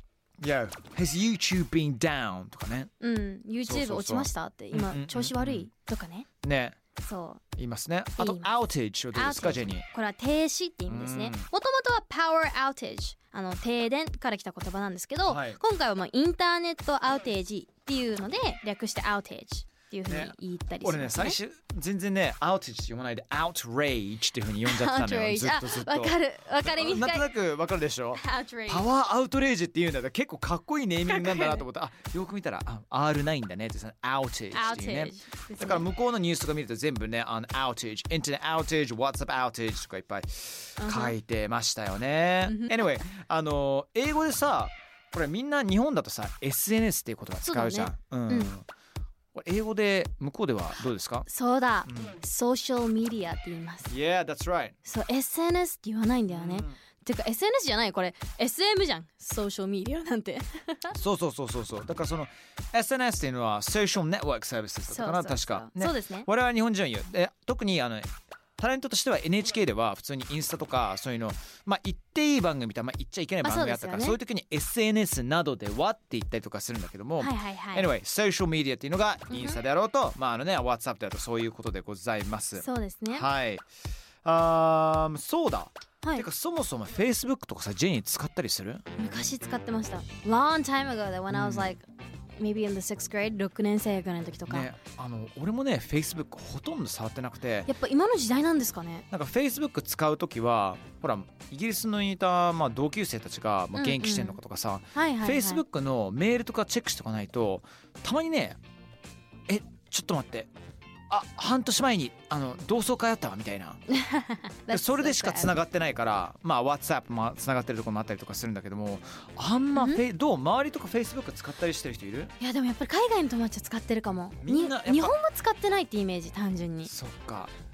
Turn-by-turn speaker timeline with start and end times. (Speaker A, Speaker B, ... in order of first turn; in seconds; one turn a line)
Speaker A: 0.4-2.9
Speaker B: 3.0-6.3
Speaker A: 3.6-5.7
Speaker A: 6.4-6.8
Speaker B: 7.0-7.4
Speaker A: 7.6-9.8
Speaker B: 8.2-8.5
Speaker B: 9.1-21.4
Speaker A: 10.9-11.5
Speaker A: 15.2-15.6
Speaker A: 20.1-48.6
Speaker B: 24.6-27.2
Speaker B: 28.1-28.9
Speaker B: 31.1-31.6
Speaker B: 34.5-35.9
Speaker B: 40.8-41.1
Speaker B: 42.5-42.8
Speaker B: 47.4-48.5
Speaker A: 49.3-51.3
Speaker B: 51.2-53.9
Speaker A: 51.9-52.2
Speaker A: 53.9-54.8
Speaker B: 54.8-60.9
Speaker A: 56.3-56.8
Speaker A: 60.9-83.6
Speaker B: 64.9-66.3
Speaker B: 73.4-74.2
Speaker B: 77.2-77.9
Speaker B: 79.3-79.6
Speaker B: 82.5-83.3
Speaker A: 84.2-88.8
Speaker B: 86.0-86.3
Speaker B: 89.0-91.8
Speaker A: 91.3-91.7
Speaker B: 92.4-94.7
Speaker A: 94.5-97.7
Speaker B: 97.7-99.0
Speaker A: 99.1-108.6
Speaker B: 103.7-104.4
Speaker B: 104.9-105.6
Speaker A: 109.5-110.5
Speaker A: 111.1-113.8
Speaker B: 113.9-115.5
Speaker A: 114.7-122.3
Speaker B: 119.7-120.0
Speaker B: 122.4-126.9
Speaker A: 124.4-125.2
Speaker A: 126.8-127.5